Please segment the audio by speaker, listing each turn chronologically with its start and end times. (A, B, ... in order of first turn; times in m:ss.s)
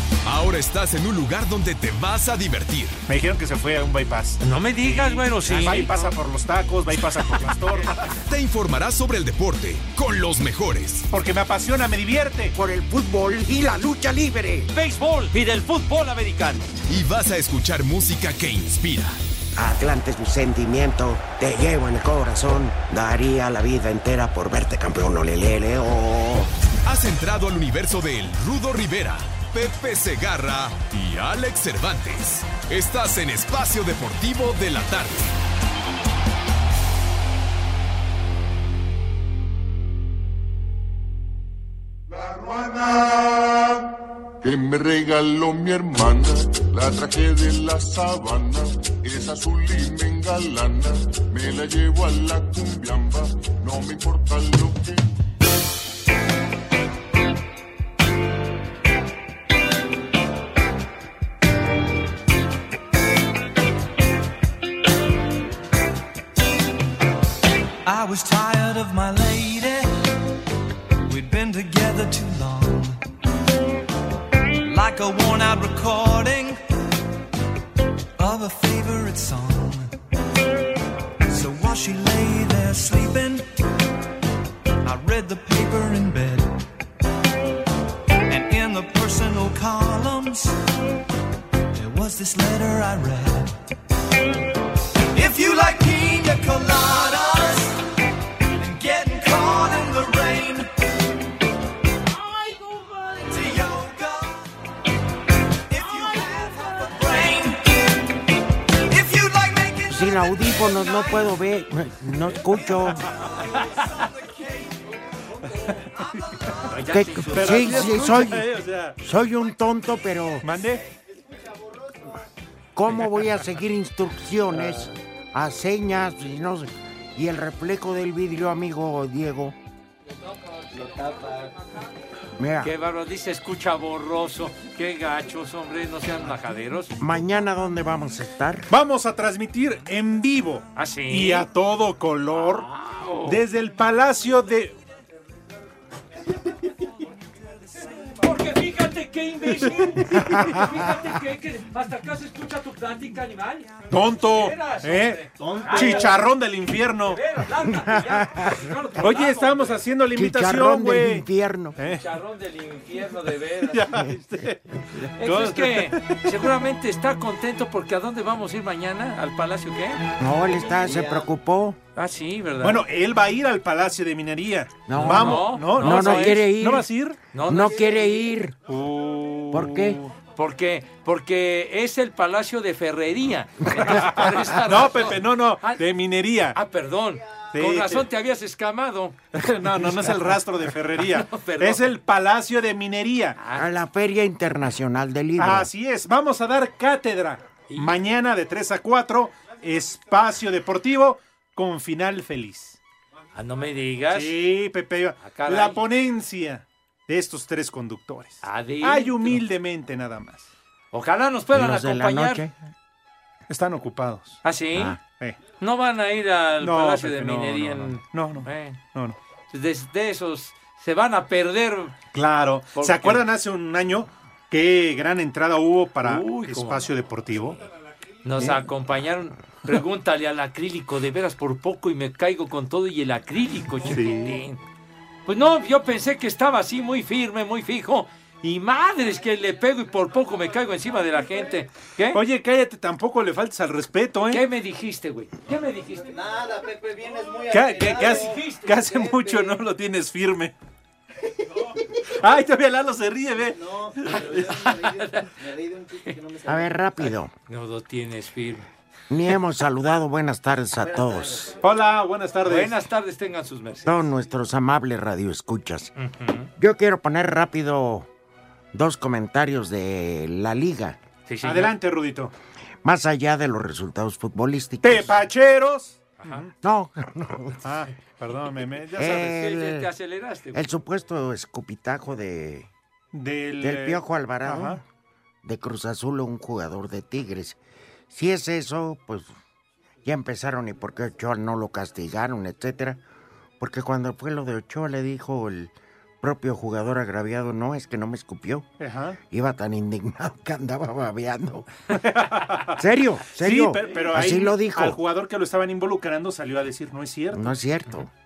0:00.2-0:03.0 A
0:03.1-0:08.0 B
0:04.4-0:06.1 C
0:08.2-0:11.1 A
0:11.1-0:12.5 B
0:12.5-0:14.7 D
0:14.7-0:16.7 C
0:16.9-0:19.2 A
0:19.5-0:26.5 D
0:26.8-0:35.3 A
0:42.1-0:43.8 E
0:44.4-0:55.0 E
1:07.8-1:10.0 F
1:11.0-1:13.0 F
1:14.6-1:16.6 F
1:18.2-1:19.9 F
1:21.3-1:23.5 F
1:24.8-1:26.6 F
1:28.3-1:30.6 F
1:31.7-1:33.5 F
1:35.1-1:37.8 F
1:38.6-1:40.7 F
1:43.2-1:44.4 F
1:45.7-1:48.0 F
1:48.9-1:50.4 F
1:49.9-1:53.0 D
1:56.7-1:58.1 C
1:56.9-1:58.5 D
1:57.3-1:59.0 B
1:59.0-2:00.4 D
2:00.4-2:00.8 B
2:02.7-2:09.5 D
2:04.5-2:04.9 B
2:10.7-2:11.5 G
2:12.4-2:12.7 D
2:12.6-2:17.0 C
2:17.0-2:18.7 D
2:18.7-2:22.7 B
2:20.8-2:21.5 C
2:22.3-2:23.4 C
2:23.2-2:24.8 B
2:28.1-2:36.2 C
2:30.2-2:30.6 D
2:33.9-2:37.2 B
2:35.4-2:36.0 G
2:37.0-2:39.8 C
2:37.7-2:38.7 D
2:39.0-2:42.0 B
2:40.1-2:41.8 D
2:42.0-2:43.9 C
2:43.6-2:46.2 B
2:45.2-2:50.0 C
2:50.2-2:51.8 D
2:50.8-2:51.2 C
2:52.0-2:52.8 C
2:52.6-2:57.2 B
2:54.9-2:56.9 D
2:54.9-2:56.4 C
2:57.3-2:58.3 C
2:57.4-2:58.5 D
2:58.7-3:00.1 B
2:59.5-3:00.0 D
3:00.4-3:05.8 C
3:03.8-3:06.6 B
3:06.5-3:09.2 C
3:07.5-3:08.0 B
3:09.3-3:13.4 B
3:11.2-3:11.9 C
3:13.4-3:13.6 C
3:13.5-3:15.7 D
3:15.4-3:22.8 B
3:23.3-3:24.4 C
3:24.1-3:30.5 B
3:25.2-3:25.8 C
3:28.4-3:29.4 C
3:30.9-3:32.4 C
3:31.5-3:32.6 D
3:33.5-3:34.4 B
3:34.4-3:35.0 C
3:34.7-3:35.0 D
3:35.6-3:38.8 C
3:36.6-3:39.2 B
3:39.5-3:42.0 C
3:42.1-3:47.6 B
3:42.8-3:43.2 C
3:46.0-3:46.8 C
3:48.2-3:54.6 C
3:53.9-3:54.4 B
3:55.2-4:02.2 C
4:02.1-4:04.4 B
4:04.3-4:06.2 C
4:06.2-4:08.2 G
4:07.5-4:10.5 B
4:07.7-4:09.0 C
4:12.1-4:15.0 B
4:13.7-4:16.7 G
4:15.9-4:16.2 C
4:16.4-4:17.3 D
4:17.5-4:18.6 C
4:19.1-4:21.5 D
4:21.4-4:22.7 B
4:22.4-4:24.1 C
4:23.8-4:25.9 D
4:26.0-4:26.5 C
4:26.6-4:28.1 D
4:28.7-4:31.0 D
4:31.3-4:31.7 C
4:31.4-4:32.3 B
4:32.8-4:35.2 D
4:34.8-4:36.5 B
4:36.6-4:37.6 D
4:37.6-4:39.4 B
4:38.9-4:39.9 D
4:39.0-4:40.7 C
4:40.5-4:42.7 D
4:43.1-4:44.8 B
4:43.6-4:44.8 D
4:45.4-4:47.6 D
4:48.1-4:49.3 D
4:50.0-4:53.0 D
4:53.6-4:58.7 D
4:58.8-4:59.2 B
4:59.3-5:01.7 D
5:02.0-5:02.8 B
5:02.7-5:05.0 D
5:03.4-5:07.6 B
5:07.3-5:08.1 D